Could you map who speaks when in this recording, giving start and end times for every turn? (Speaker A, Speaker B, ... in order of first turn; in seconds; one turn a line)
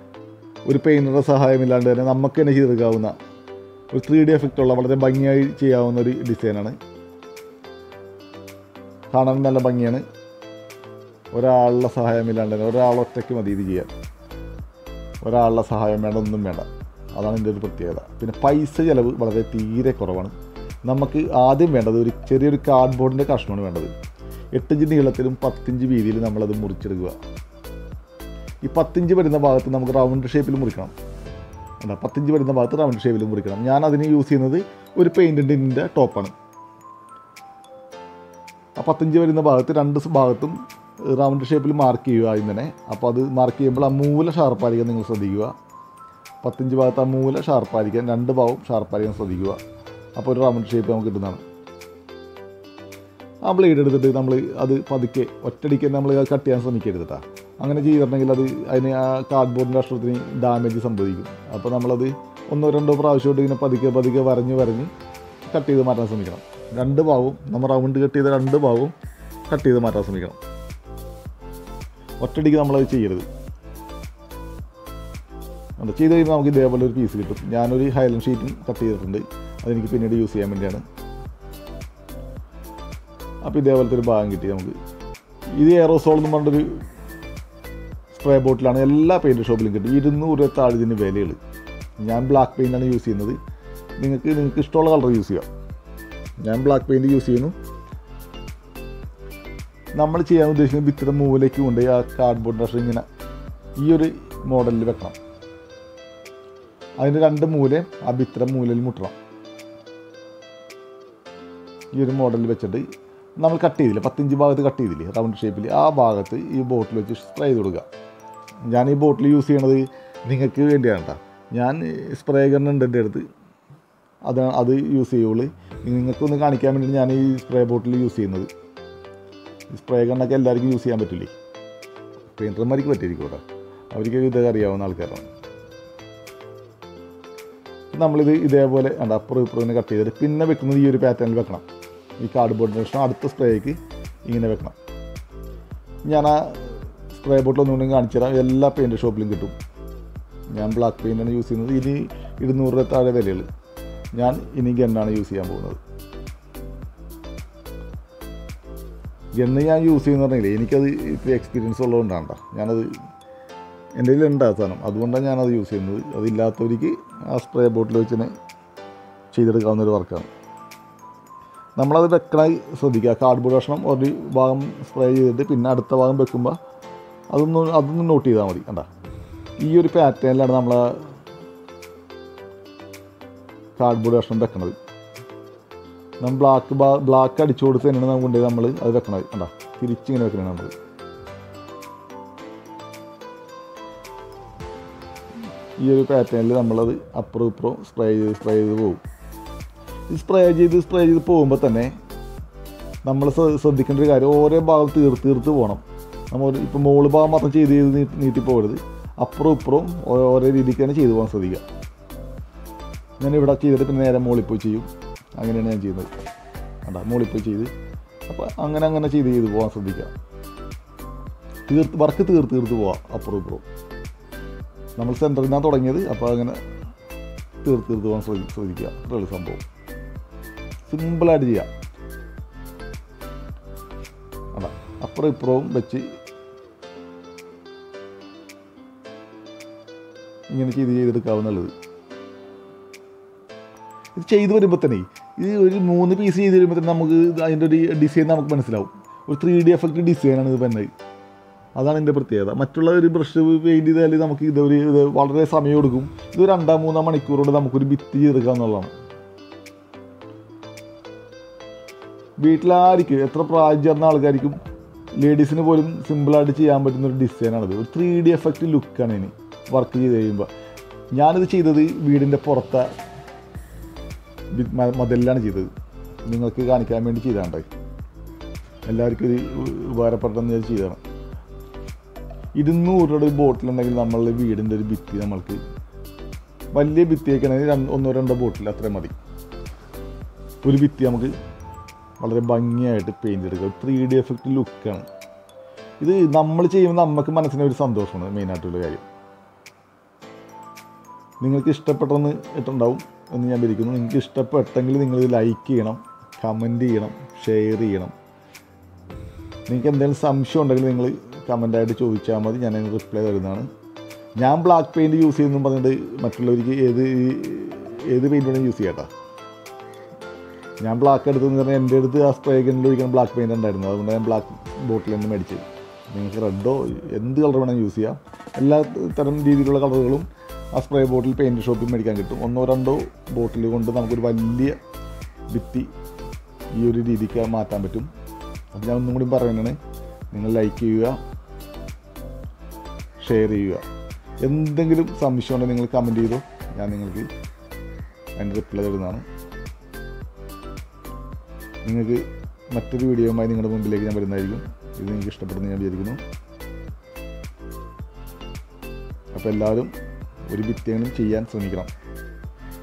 Speaker A: 0.7-3.1
Speaker A: 3.9-6.8
Speaker A: 9.1-10.0
Speaker A: 11.3-13.9
Speaker A: 15.2-20.3
Speaker A: 20.9-23.9
Speaker A: 24.5-27.1
Speaker A: 28.6-30.9
Speaker A: 31.8-36.3
Speaker A: 38.8-40.5
Speaker A: 41.1-45.5
Speaker A: 46.4-49.6
Speaker A: 50.1-51.4
Speaker A: 53.4-64.9
Speaker A: 65.5-68.9
Speaker A: 69.5-70.4
Speaker A: 72.2-73.2
Speaker A: 75.8-80.8
Speaker A: 83.4-84.7
Speaker A: 85.6-86.8
Speaker A: 88.1-91.4
Speaker A: 92.0-93.4
Speaker A: 94.0-95.5
Speaker A: 96.4-97.5
Speaker A: 100.0-103.0
Speaker A: 103.8-105.2
Speaker A: 107.0-109.2
Speaker A: 111.9-112.8
Speaker A: 113.4-117.8
Speaker A: 118.7-123.2
Speaker A: 124.2-128.5
Speaker A: 129.7-131.3
Speaker A: 132.3-135.2
Speaker A: 137.9-141.6
Speaker A: 142.2-144.7
Speaker A: 146.1-149.5
Speaker A: 150.5-153.4
Speaker A: 154.1-155.8
Speaker A: 159.4-162.9
Speaker A: 164.0-168.3
Speaker A: 169.3-170.3
Speaker A: 171.8-176.6
Speaker A: 177.3-178.9
Speaker A: 179.6-181.0
Speaker A: 183.8-184.7
Speaker A: 186.2-190.7
Speaker A: 195.8-199.0
Speaker A: 200.1-201.9
Speaker A: 203.0-211.6
Speaker A: 213.2-214.9
Speaker A: 215.4-216.1
Speaker A: 216.8-217.7
Speaker A: 218.3-220.1
Speaker A: 221.7-223.6
Speaker A: 225.0-226.6
Speaker A: 227.6-229.6
Speaker A: 230.9-231.7
Speaker A: 234.5-236.1
Speaker A: 240.5-241.7
Speaker A: 244.2-250.9
Speaker A: 251.8-258.9
Speaker A: 262.4-264.6
Speaker A: 265.2-270.5
Speaker A: 271.1-272.9
Speaker A: 274.5-275.7
Speaker A: 276.3-277.6
Speaker A: 278.9-281.0
Speaker A: 282.6-285.6
Speaker A: 286.7-289.1
Speaker A: 290.6-291.3
Speaker A: 292.2-295.1
Speaker A: 296.0-299.0
Speaker A: 301.4-308.1
Speaker A: 309.7-313.6
Speaker A: 314.4-319.1
Speaker A: 320.8-334.8
Speaker A: 335.5-335.9
Speaker A: 336.8-338.1
Speaker A: 338.7-339.8
Speaker A: 340.3-341.2
Speaker A: 343.2-343.8
Speaker A: 344.4-347.3
Speaker A: 348.4-349.2
Speaker A: 351.8-356.2
Speaker A: 359.3-359.9
Speaker A: 360.5-361.9